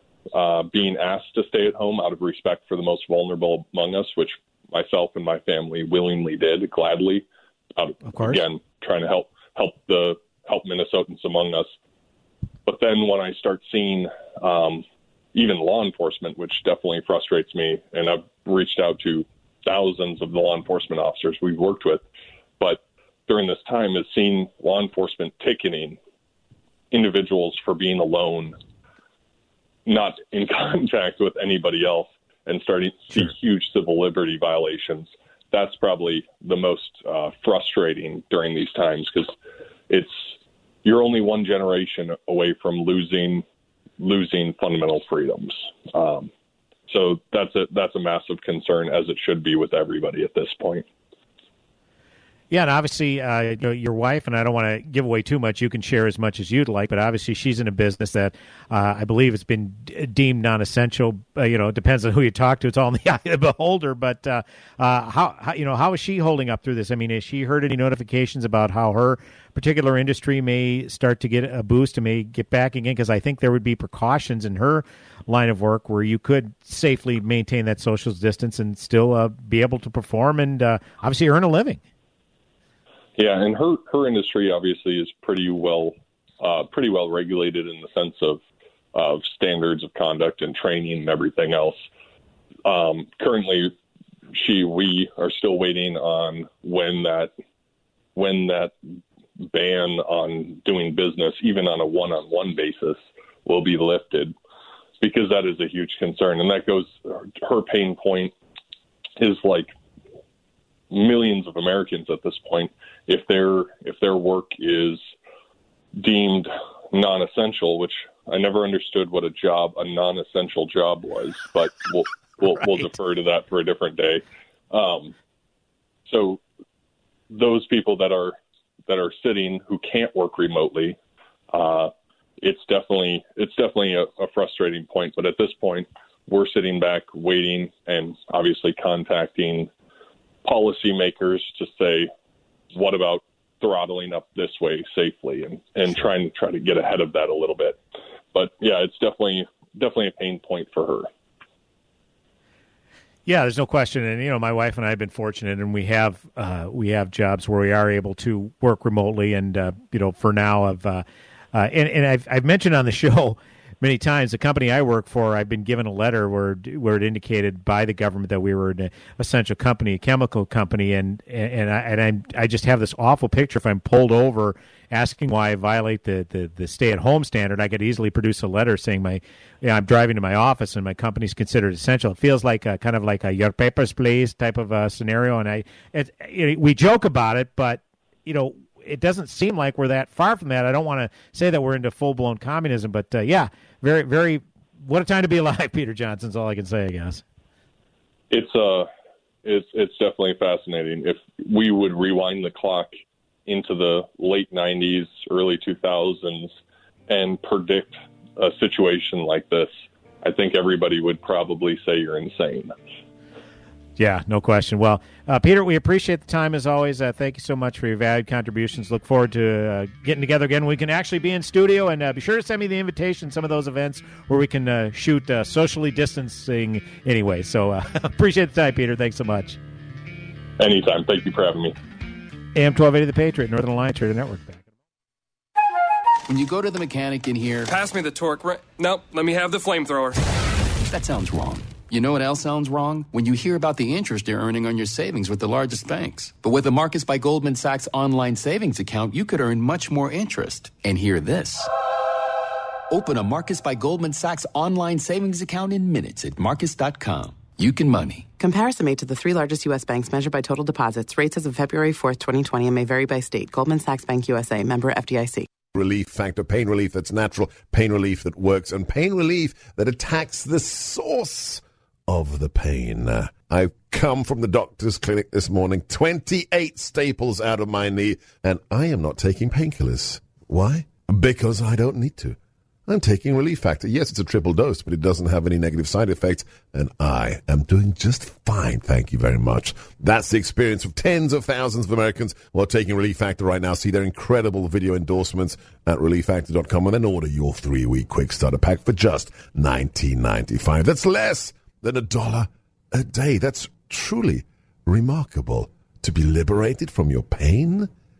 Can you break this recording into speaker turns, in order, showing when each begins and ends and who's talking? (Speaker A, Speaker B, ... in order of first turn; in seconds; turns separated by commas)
Speaker A: 0.3-7.2, Speaker A: 7.8-11.7, Speaker B: 8.0-8.4, Speaker A: 12.7-22.0, Speaker A: 22.6-26.0, Speaker A: 26.9-28.6, Speaker A: 29.9-39.3, Speaker A: 39.9-43.4, Speaker A: 44.0-46.3, Speaker A: 46.9-50.9, Speaker B: 52.5-81.8, Speaker A: 83.2-88.4, Speaker A: 88.9-91.8, Speaker A: 92.6-93.7, Speaker A: 94.3-97.3, Speaker A: 98.1-98.7, Speaker A: 99.4-104.3, Speaker A: 105.0-108.3, Speaker A: 109.2-109.7, Speaker A: 110.9-115.0, Speaker A: 116.0-125.1, Speaker A: 126.0-126.4, Speaker A: 127.3-128.3, Speaker A: 128.9-131.0, Speaker A: 131.5-139.7, Speaker A: 140.4-142.1, Speaker A: 142.7-147.8, Speaker A: 148.3-151.1, Speaker B: 153.2-197.2, Speaker A: 198.3-198.9, Speaker A: 199.4-202.9, Speaker A: 203.4-206.5, Speaker A: 207.1-209.7, Speaker A: 210.2-212.7, Speaker B: 214.0-229.6, Speaker A: 230.6-231.7, Speaker B: 232.6-234.6, Speaker C: 236.3-237.7, Speaker D: 237.7-240.2, Speaker C: 240.9-251.7, Speaker C: 253.0-258.2, Speaker E: 258.4-265.5, Speaker F: 265.7-307.9